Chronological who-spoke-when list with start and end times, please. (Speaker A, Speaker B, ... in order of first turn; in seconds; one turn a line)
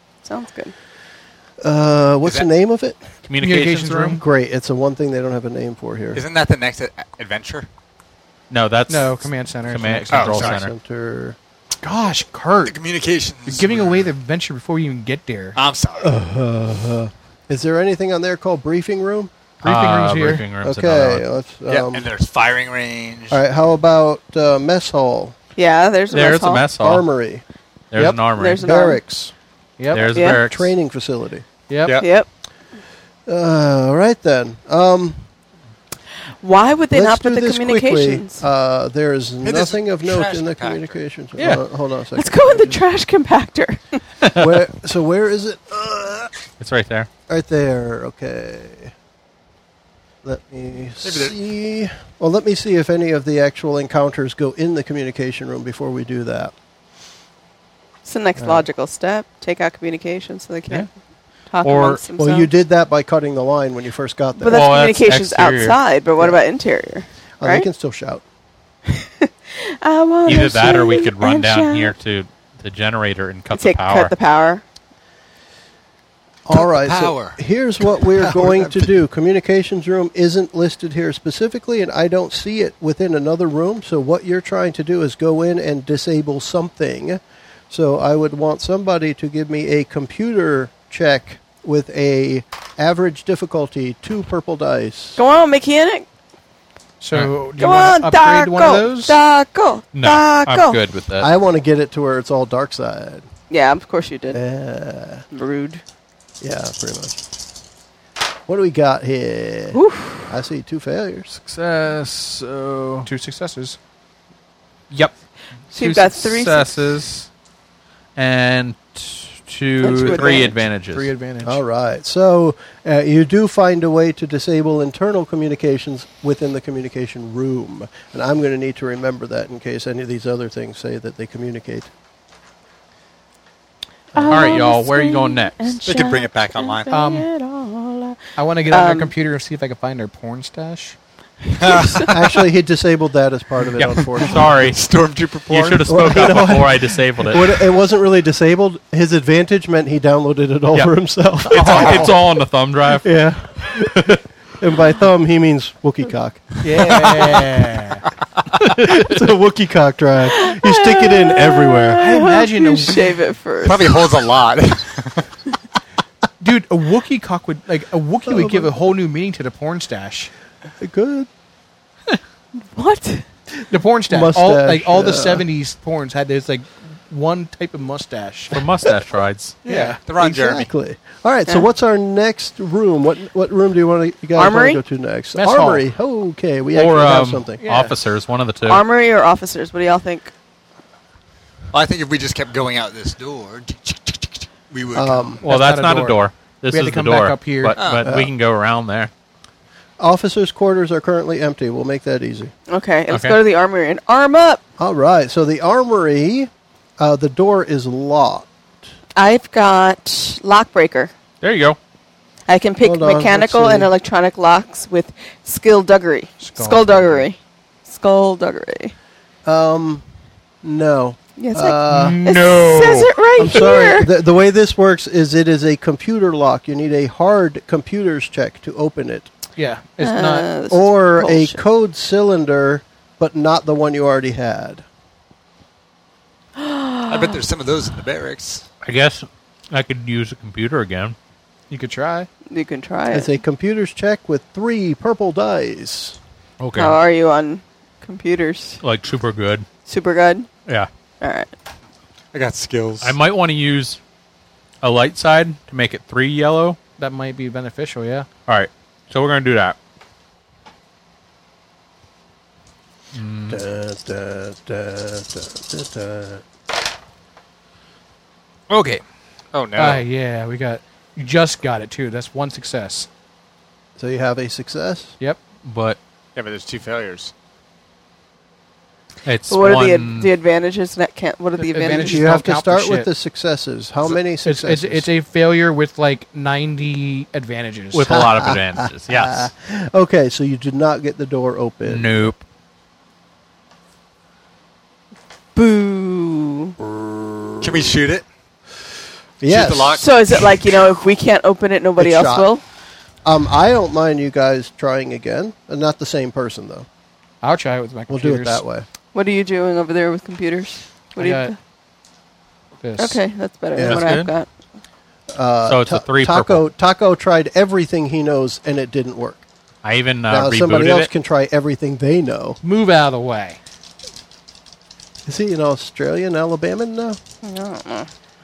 Speaker A: 0.2-0.7
Speaker B: 1.6-3.0
Speaker C: 3.2-4.2
Speaker D: 3.4-4.2
Speaker B: 4.1-6.2
Speaker E: 6.1-7.7
Speaker C: 8.5-10.7
Speaker D: 8.9-10.4
Speaker E: 10.1-10.6
Speaker B: 10.4-11.4
Speaker D: 11.8-12.8
Speaker E: 12.6-14.1
Speaker D: 13.4-15.6
Speaker E: 15.5-16.2
Speaker B: 16.0-19.3
Speaker D: 19.6-20.4
Speaker C: 19.6-21.2
Speaker B: 20.6-22.1
Speaker E: 21.7-23.4
Speaker B: 23.3-25.3
Speaker A: 25.6-26.7
Speaker C: 26.1-27.0
Speaker B: 26.8-27.4
Speaker C: 27.9-28.6
Speaker D: 27.9-28.2
Speaker A: 28.3-29.0
Speaker B: 28.6-29.3
Speaker D: 29.8-30.2
Speaker C: 29.9-30.7
Speaker A: 30.1-30.4
Speaker B: 30.3-31.4
Speaker D: 31.7-32.0
Speaker A: 32.0-32.3
Speaker B: 33.3-35.2
Speaker A: 36.4-38.4
Speaker B: 36.9-42.8
Speaker E: 39.4-41.0
Speaker A: 42.1-44.0
Speaker B: 44.3-46.4
Speaker C: 46.6-47.1
Speaker B: 47.3-48.9
Speaker B: 50.2-56.5
Speaker E: 51.0-51.4
Speaker A: 58.0-60.9
Speaker B: 58.4-58.6
Speaker A: 61.5-62.5
Speaker C: 61.6-62.0
Speaker B: 62.2-64.7
Speaker A: 64.4-67.7
Speaker C: 64.5-65.8
Speaker B: 67.4-68.2
Speaker A: 68.9-71.9
Speaker C: 70.2-74.1
Speaker A: 73.5-74.6
Speaker B: 76.5-95.2
Speaker E: 76.5-78.9
Speaker A: 95.2-96.0
Speaker D: 97.0-99.2
Speaker C: 97.1-97.4
Speaker A: 97.5-100.8
Speaker C: 99.9-101.3
Speaker B: 101.2-103.2
Speaker A: 103.5-104.4
Speaker B: 104.3-105.2
Speaker A: 105.3-105.8
Speaker B: 106.4-107.2
Speaker B: 108.5-111.3
Speaker A: 109.7-110.3
Speaker C: 111.3-113.1
Speaker D: 113.0-113.8
Speaker C: 115.7-117.3
Speaker A: 115.7-116.7
Speaker C: 118.2-121.1
Speaker A: 119.8-120.5
Speaker D: 119.9-121.6
Speaker B: 121.4-131.9
Speaker A: 134.1-139.1
Speaker C: 134.2-135.8
Speaker E: 135.8-136.9
Speaker D: 136.9-137.3
Speaker D: 138.3-141.0
Speaker E: 141.6-142.2
Speaker A: 141.6-142.1
Speaker B: 142.0-144.5
Speaker C: 143.8-144.8
Speaker E: 144.2-145.9
Speaker C: 145.5-147.7
Speaker B: 145.8-152.2
Speaker C: 151.5-153.1
Speaker D: 151.5-152.1
Speaker B: 153.0-156.6
Speaker C: 153.7-154.2
Speaker D: 156.6-158.0
Speaker C: 158.5-159.1
Speaker B: 158.7-162.2
Speaker A: 160.3-164.0
Speaker D: 162.0-163.2
Speaker E: 163.6-165.2
Speaker D: 166.4-170.3
Speaker B: 168.2-168.8
Speaker B: 170.8-171.3
Speaker A: 172.6-173.2
Speaker D: 173.7-178.6
Speaker B: 174.1-175.4
Speaker C: 178.5-179.6
Speaker D: 179.6-180.0
Speaker E: 179.8-180.7
Speaker B: 180.2-187.6
Speaker A: 184.3-184.8
Speaker D: 185.3-185.8
Speaker C: 186.7-188.8
Speaker D: 187.6-187.9
Speaker A: 188.6-190.3
Speaker E: 191.7-195.4
Speaker B: 194.9-195.4
Speaker C: 195.4-199.1
Speaker D: 195.4-197.8
Speaker E: 197.8-198.1
Speaker B: 198.0-198.3
Speaker B: 200.0-202.5
Speaker A: 202.7-204.6
Speaker C: 203.1-203.4
Speaker B: 204.8-208.5
Speaker A: 209.2-211.1
Speaker C: 211.4-211.8
Speaker A: 212.5-218.9
Speaker B: 212.8-213.9
Speaker D: 216.4-217.2
Speaker B: 219.4-220.0
Speaker B: 220.6-222.2
Speaker A: 221.4-224.1
Speaker D: 221.9-223.1
Speaker B: 223.4-229.3
Speaker D: 229.6-230.5
Speaker A: 230.0-231.6
Speaker B: 230.7-234.8
Speaker A: 236.6-237.4
Speaker E: 237.1-238.7
Speaker C: 238.8-241.1
Speaker D: 241.7-242.3
Speaker A: 242.5-243.3
Speaker B: 243.1-246.2
Speaker C: 246.6-247.0
Speaker A: 246.7-248.8
Speaker C: 248.8-249.7
Speaker A: 249.8-250.5
Speaker A: 251.2-251.5
Speaker E: 252.3-253.2
Speaker C: 253.0-254.0
Speaker C: 254.8-256.8
Speaker D: 257.0-258.3
Speaker C: 258.5-259.8
Speaker C: 263.1-263.6
Speaker B: 263.5-266.4
Speaker C: 268.7-269.0
Speaker E: 269.5-270.0
Speaker D: 269.8-273.1
Speaker B: 274.0-275.1
Speaker C: 275.6-276.0
Speaker E: 276.4-277.3
Speaker C: 279.2-280.3
Speaker A: 279.5-282.2
Speaker D: 281.6-283.1
Speaker B: 282.0-285.1
Speaker D: 284.4-288.1
Speaker C: 287.9-289.5
Speaker B: 288.1-292.3
Speaker C: 291.9-292.4
Speaker A: 295.5-296.8
Speaker B: 296.8-297.9
Speaker E: 297.6-298.2
Speaker B: 299.4-300.0
Speaker E: 299.4-300.1
Speaker A: 299.9-302.6
Speaker B: 302.0-302.5
Speaker B: 303.2-306.9
Speaker D: 307.4-308.6
Speaker B: 308.1-308.9
Speaker A: 309.1-311.6
Speaker D: 311.2-311.5
Speaker D: 312.8-313.2
Speaker A: 313.0-314.5
Speaker B: 313.7-314.1
Speaker C: 313.8-314.3
Speaker B: 315.3-319.4
Speaker C: 315.7-316.6
Speaker C: 319.8-321.1
Speaker B: 320.3-322.6
Speaker D: 322.6-323.6
Speaker B: 325.2-327.2
Speaker A: 327.4-328.1